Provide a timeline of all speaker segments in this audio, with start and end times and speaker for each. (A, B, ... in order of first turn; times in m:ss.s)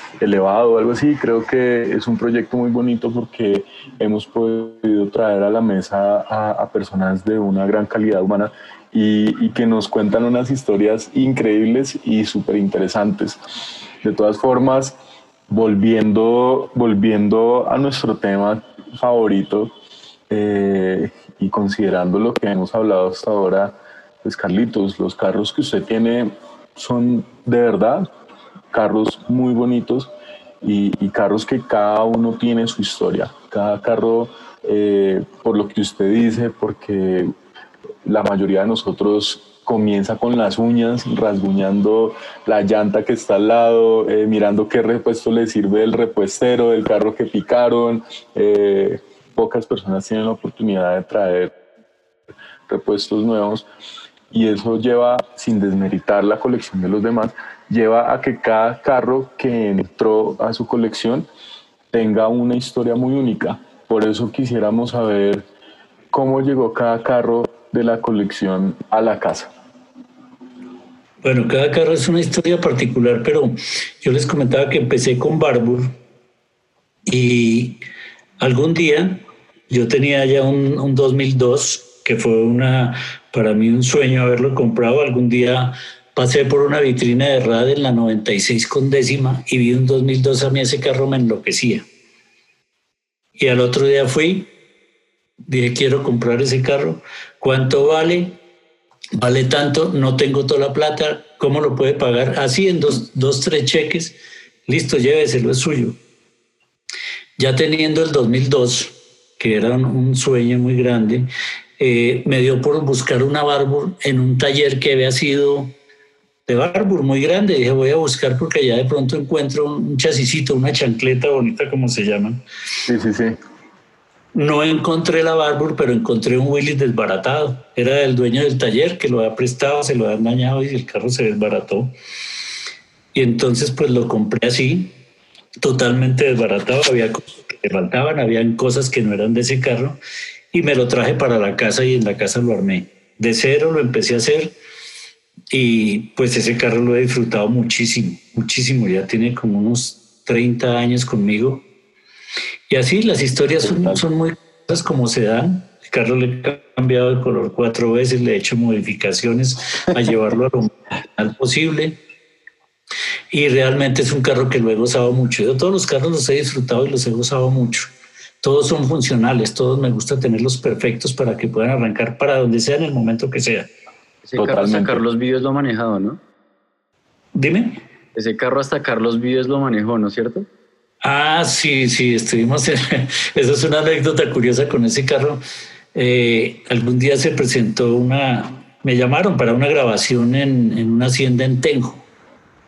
0:00.2-0:13.4 A
0:14.0-0:15.0 A
0:15.5-0:19.7 A
0:20.3-0:28.1 A
0:28.7-0:30.1 A
0:30.6-0:37.3 A
0:38.0-0:51.6 A
0:52.7-0:53.7 A
0:54.3-1:01.3 A
1:01.9-1:05.4 A
1:06.1-1:09.5 A
1:11.2-1:15.9 B
1:17.1-1:17.8 B
1:18.4-1:31.9 B
1:33.4-1:34.5 B
1:35.5-1:38.4 B
1:39.2-1:44.2 B
1:44.7-1:46.0 B
1:47.4-1:55.8 B
1:56.5-2:02.4 B
2:02.9-2:03.4 A
2:04.3-2:11.9 B
2:13.1-2:14.9 B
2:15.6-2:20.0 B
2:20.5-2:24.6 B
2:25.5-2:31.7 B
2:32.7-2:42.0 B
2:33.6-2:34.0 A
2:43.3-2:53.7 B
2:54.2-2:56.2 C
2:54.4-2:55.0 A
2:57.4-2:57.8 B
2:58.2-3:00.5 C
3:01.0-3:05.4 B
3:05.9-3:12.1 B